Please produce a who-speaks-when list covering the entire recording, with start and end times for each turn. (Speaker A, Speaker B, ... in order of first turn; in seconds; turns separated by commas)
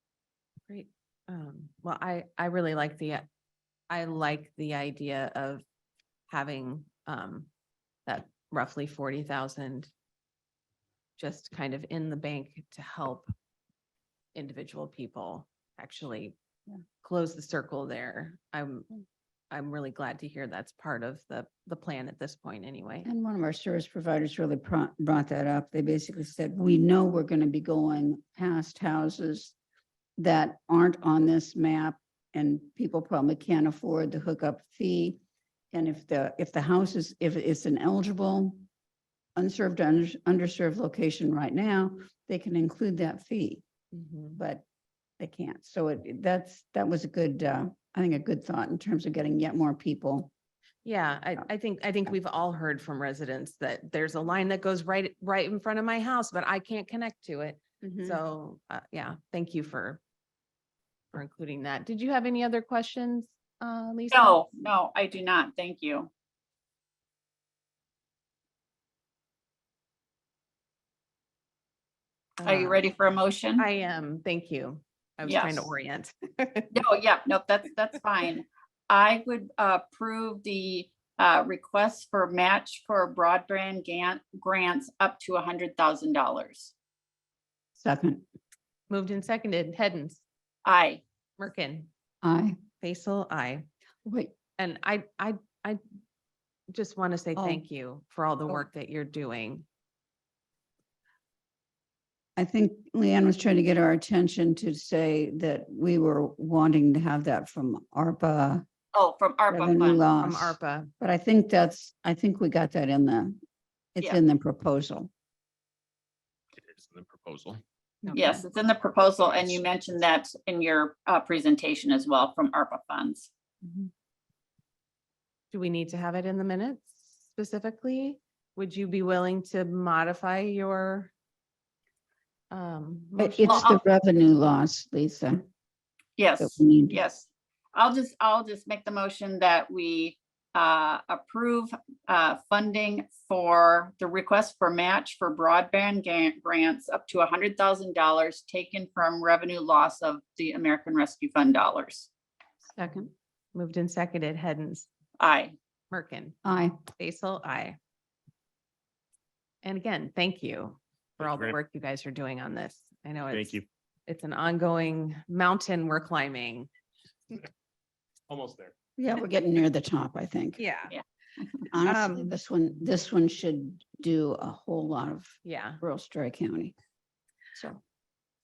Speaker A: 0.7-3.2, Speaker A: 3.9-5.6, Speaker A: 6.3-7.5, Speaker A: 8.1-9.9, Speaker A: 11.2-13.3, Speaker A: 14.3-16.3, Speaker A: 17.0-18.9, Speaker A: 19.5-23.1, Speaker B: 23.0-29.6, Speaker B: 30.2-35.2, Speaker B: 35.7-38.6, Speaker B: 39.4-43.6, Speaker A: 43.9-44.4, Speaker B: 44.4-44.6, Speaker B: 45.2-50.3, Speaker A: 50.8-60.0, Speaker B: 57.8-58.2, Speaker A: 61.1-64.4, Speaker C: 64.1-66.1, Speaker A: 72.4-72.8, Speaker C: 72.4-73.6, Speaker A: 73.6-76.7, Speaker C: 75.2-75.7, Speaker C: 76.7-86.7, Speaker B: 87.8-88.2, Speaker A: 88.9-90.2, Speaker C: 90.6-91.0, Speaker A: 91.4-91.9, Speaker B: 92.2-92.6, Speaker A: 92.8-93.7, Speaker B: 94.0-94.3, Speaker A: 94.6-95.8, Speaker A: 96.7-99.7, Speaker B: 97.3-97.6, Speaker B: 102.3-108.6, Speaker C: 108.9-110.0, Speaker B: 109.5-113.3, Speaker A: 110.2-110.9, Speaker B: 114.0-115.1, Speaker D: 116.6-117.6, Speaker B: 118.0-118.4, Speaker C: 118.1-123.3, Speaker A: 125.5-131.1, Speaker A: 132.5-133.7, Speaker B: 133.2-135.4, Speaker C: 133.5-133.8, Speaker C: 136.2-152.1, Speaker B: 136.4-137.0, Speaker B: 152.6-153.1, Speaker A: 153.5-154.9, Speaker C: 155.2-155.6, Speaker A: 155.9-156.4, Speaker B: 156.4-156.8, Speaker A: 156.9-157.8, Speaker A: 159.6-166.7, Speaker D: 161.2-161.6, Speaker D: 163.3-163.7, Speaker D: 168.3-168.7, Speaker B: 169.0-170.6, Speaker A: 170.6-170.9, Speaker B: 171.7-176.7, Speaker A: 171.8-172.3, Speaker A: 175.4-175.8, Speaker B: 177.5-177.8